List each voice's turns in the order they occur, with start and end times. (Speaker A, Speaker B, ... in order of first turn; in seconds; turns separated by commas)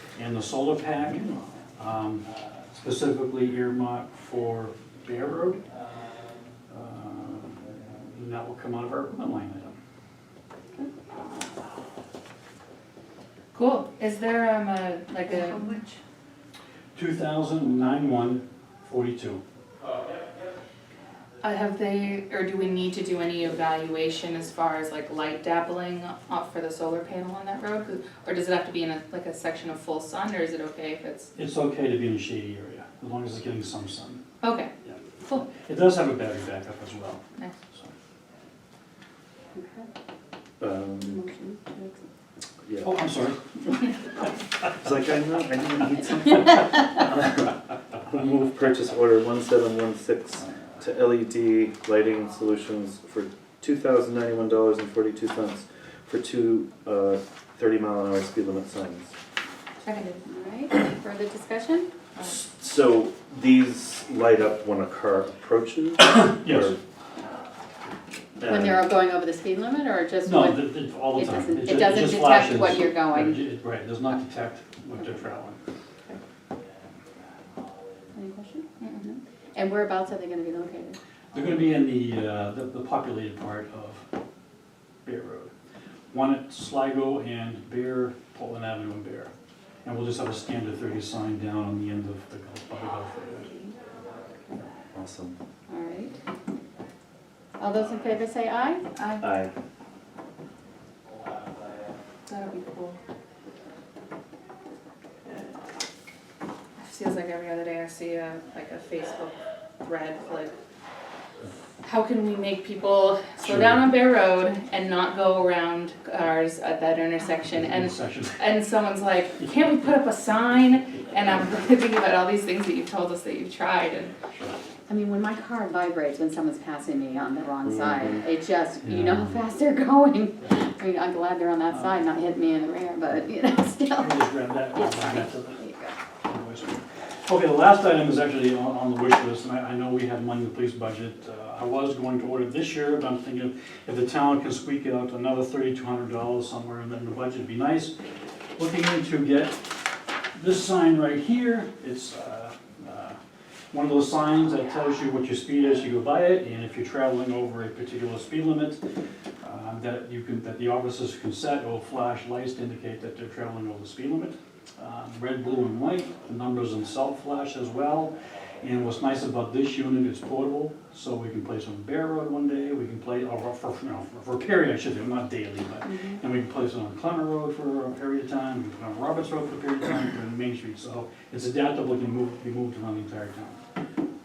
Speaker A: 0.2-5.6, Speaker A: 6.7-9.8, Speaker B: 13.5-15.7, Speaker C: 15.3-16.0, Speaker A: 16.9-19.4, Speaker B: 21.4-31.3, Speaker A: 31.4-34.2, Speaker B: 34.4-34.7, Speaker A: 34.9-37.9, Speaker B: 35.2-35.5, Speaker C: 39.5-39.9, Speaker D: 40.6-41.2, Speaker C: 41.0-42.0, Speaker D: 42.7-43.0, Speaker A: 42.8-43.4, Speaker D: 44.8-59.1, Speaker B: 59.8-60.2, Speaker C: 60.3-61.9, Speaker D: 62.2-66.8, Speaker A: 66.0-66.8, Speaker D: 68.4-68.8, Speaker C: 68.5-73.5, Speaker A: 70.2-75.6, Speaker C: 78.2-81.0, Speaker B: 78.8-79.2, Speaker A: 81.3-84.0, Speaker A: 85.0-85.5, Speaker A: 86.1-89.3, Speaker A: 89.8-93.6, Speaker D: 94.9-95.4, Speaker C: 95.7-96.2, Speaker C: 97.6-98.9, Speaker B: 99.0-99.3, Speaker D: 99.2-99.5, Speaker B: 102.3-103.0, Speaker B: 106.8-110.5, Speaker B: 111.8-124.2, Speaker A: 113.4-113.9, Speaker A: 117.4-118.4, Speaker C: 124.9-135.9, Speaker D: 127.7-128.2, Speaker A: 128.8-129.4, Speaker A: 133.9-135.6, Speaker A: 136.2-148.0, Speaker A: 148.6-149.8, Speaker A: 150.3-153.2, Speaker A: 153.7-158.8, Speaker A: 159.4-183.6, Speaker C: 175.9-176.2